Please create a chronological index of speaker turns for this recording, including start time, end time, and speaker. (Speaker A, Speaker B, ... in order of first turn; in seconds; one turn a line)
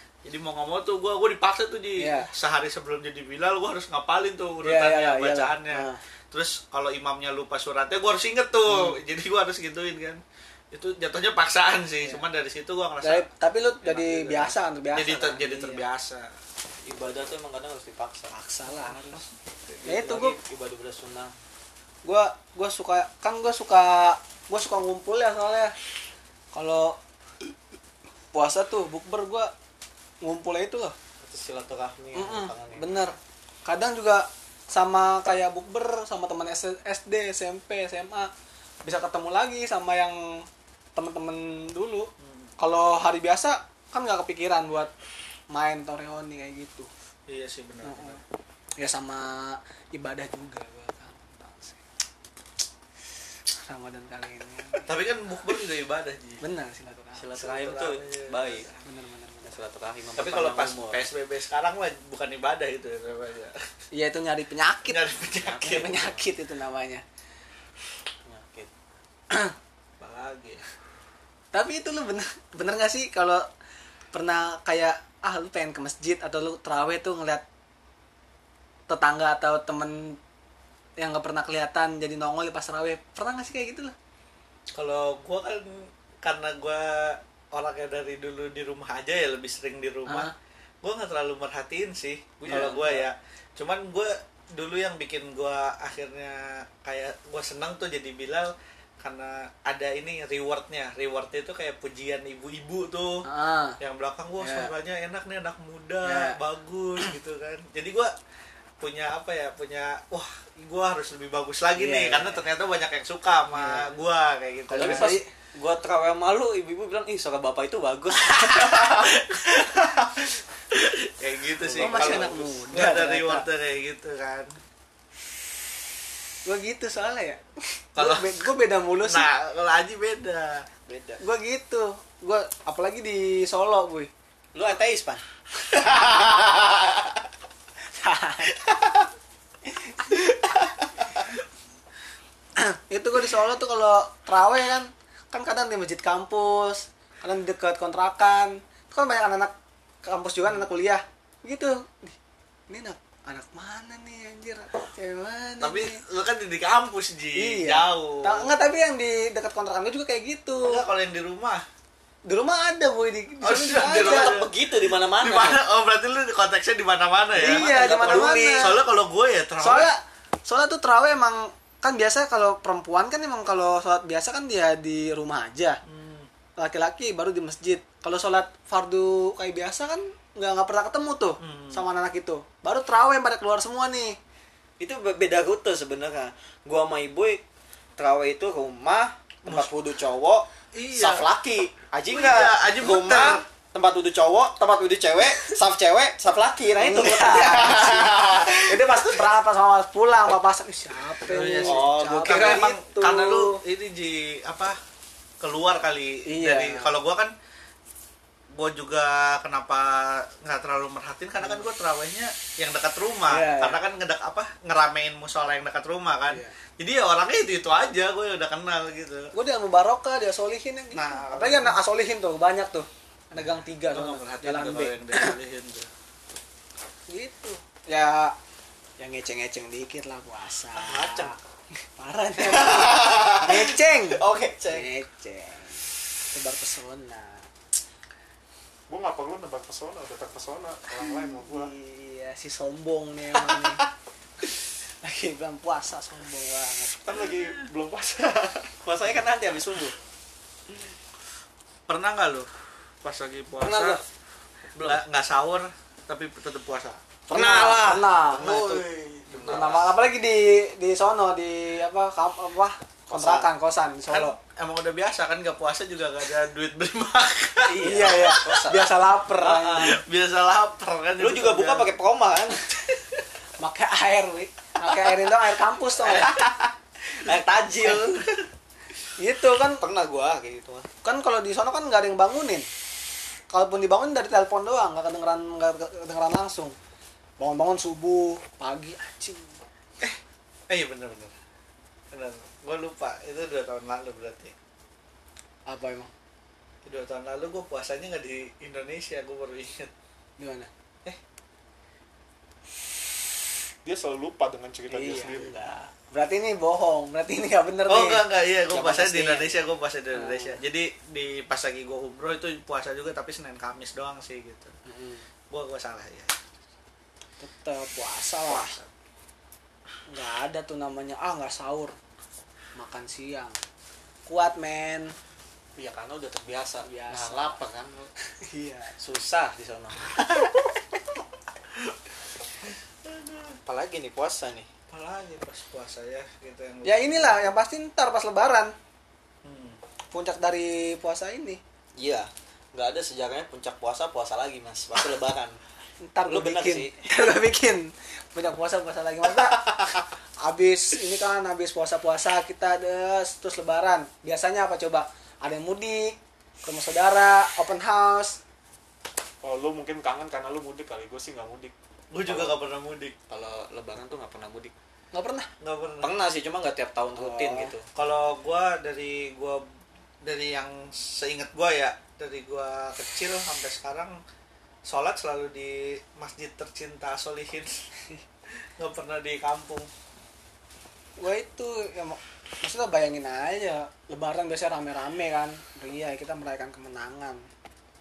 Speaker A: 0.2-10.2
Speaker B: 2.0-2.3
Speaker B: 4.6-6.0
Speaker B: 8.7-9.0
Speaker A: 10.7-13.3
Speaker B: 13.0-15.8
Speaker A: 13.8-16.3
Speaker C: 16.8-18.3
Speaker B: 18.3-19.2
Speaker C: 19.8-21.4
Speaker B: 19.9-20.4
Speaker B: 22.1-25.7
Speaker B: 26.5-27.0
Speaker B: 28.3-29.5
Speaker B: 30.2-30.9
Speaker C: 31.2-32.9
Speaker B: 32.1-38.3
Speaker B: 38.8-44.9
Speaker A: 42.2-42.5
Speaker B: 45.5-46.9
Speaker A: 47.3-48.2
Speaker B: 47.8-48.2
Speaker B: 48.8-51.8
Speaker B: 53.6-54.9
Speaker A: 54.9-56.4
Speaker B: 56.4-57.4
Speaker C: 57.2-58.7
Speaker A: 57.4-58.8
Speaker B: 58.9-59.5
Speaker C: 59.5-61.1
Speaker A: 60.2-63.6
Speaker B: 63.9-67.0
Speaker A: 64.9-66.0
Speaker C: 65.4-66.3
Speaker C: 68.3-68.7
Speaker A: 70.0-70.6
Speaker B: 71.5-73.4
Speaker B: 74.1-77.4
Speaker B: 78.9-80.2
Speaker B: 81.0-84.0
Speaker A: 84.8-90.3
Speaker B: 90.1-90.3
Speaker A: 90.8-103.2
Speaker C: 92.5-93.0
Speaker B: 92.5-93.0
Speaker B: 103.2-103.8
Speaker A: 103.8-108.1
Speaker B: 104.4-104.7
Speaker B: 106.0-106.4
Speaker A: 108.8-115.2
Speaker B: 111.8-112.4
Speaker B: 113.5-113.9
Speaker C: 114.7-119.1
Speaker B: 114.7-115.3
Speaker A: 118.2-124.5
Speaker C: 121.6-122.5
Speaker B: 121.8-123.5
Speaker B: 126.5-127.4
Speaker B: 128.0-129.3
Speaker A: 128.0-128.4
Speaker A: 129.0-130.7
Speaker C: 130.9-131.2
Speaker B: 131.2-134.1
Speaker C: 134.5-135.2
Speaker C: 135.9-136.9
Speaker B: 138.0-138.6
Speaker B: 142.6-149.5
Speaker B: 150.0-152.2
Speaker B: 152.7-156.0
Speaker A: 155.6-158.5
Speaker B: 157.4-160.8
Speaker A: 160.6-161.6
Speaker B: 162.3-164.3
Speaker A: 163.4-169.9
Speaker C: 163.9-165.6
Speaker B: 167.4-168.8
Speaker C: 167.4-168.8
Speaker B: 169.6-175.8
Speaker A: 175.8-176.3
Speaker B: 176.6-184.2
Speaker A: 181.4-181.8
Speaker C: 184.8-187.4
Speaker C: 188.0-199.1
Speaker A: 190.8-191.3
Speaker A: 192.1-193.4
Speaker B: 196.8-203.6
Speaker A: 201.3-204.8
Speaker C: 201.6-202.7
Speaker A: 205.4-207.3
Speaker B: 206.3-206.9
Speaker A: 208.5-219.3
Speaker B: 211.4-211.7
Speaker B: 213.3-213.8
Speaker B: 219.3-225.3
Speaker A: 220.9-221.8
Speaker A: 223.8-225.9
Speaker B: 227.1-228.3
Speaker B: 229.0-231.4
Speaker C: 230.8-231.4
Speaker B: 231.9-237.5
Speaker C: 232.4-234.9
Speaker D: 238.9-241.7
Speaker B: 241.3-243.8
Speaker B: 244.4-247.2
Speaker D: 247.0-248.8
Speaker C: 248.8-250.0
Speaker A: 251.9-252.5
Speaker A: 253.0-254.0
Speaker C: 253.6-254.0
Speaker B: 253.7-254.0
Speaker C: 254.7-255.0
Speaker A: 254.8-257.2
Speaker B: 257.3-258.7
Speaker C: 257.3-259.9
Speaker A: 259.3-259.9
Speaker B: 259.5-264.4
Speaker C: 263.1-263.5
Speaker A: 264.1-268.6
Speaker C: 267.7-270.0
Speaker B: 267.8-270.0
Speaker A: 269.8-271.9
Speaker C: 271.2-272.6
Speaker B: 273.6-276.3
Speaker C: 276.0-276.5
Speaker C: 277.1-278.3
Speaker B: 279.2-279.8
Speaker C: 279.8-280.9
Speaker B: 281.0-282.7
Speaker B: 283.5-286.8
Speaker B: 287.4-289.6
Speaker A: 290.0-291.3
Speaker A: 292.1-294.5
Speaker B: 295.7-296.1
Speaker A: 296.9-299.9
Speaker B: 300.4-300.7
Speaker D: 303.9-305.7
Speaker B: 304.9-309.5
Speaker A: 307.9-314.7
Speaker B: 310.1-310.6
Speaker B: 314.9-315.3
Speaker A: 315.5-316.4
Speaker B: 317.4-318.8
Speaker A: 318.5-318.9
Speaker B: 320.1-321.9
Speaker B: 322.8-323.6
Speaker B: 324.3-325.1
Speaker C: 325.8-328.1
Speaker B: 326.8-327.6
Speaker B: 328.4-328.9
Speaker C: 329.0-330.3
Speaker A: 333.1-333.6
Speaker C: 333.7-334.7
Speaker A: 334.9-337.4
Speaker B: 336.8-338.7
Speaker A: 339.4-339.8
Speaker B: 340.1-341.6
Speaker C: 342.0-345.6
Speaker B: 346.0-349.7
Speaker C: 346.3-347.0
Speaker B: 350.4-358.4
Speaker D: 359.4-361.7
Speaker A: 362.1-363.1
Speaker C: 363.3-364.7
Speaker B: 365.1-365.5
Speaker A: 365.6-366.1
Speaker C: 366.0-367.9
Speaker B: 367.2-367.7
Speaker A: 367.9-369.6
Speaker A: 370.2-374.2
Speaker A: 374.9-377.8
Speaker A: 378.8-379.9
Speaker B: 381.2-387.4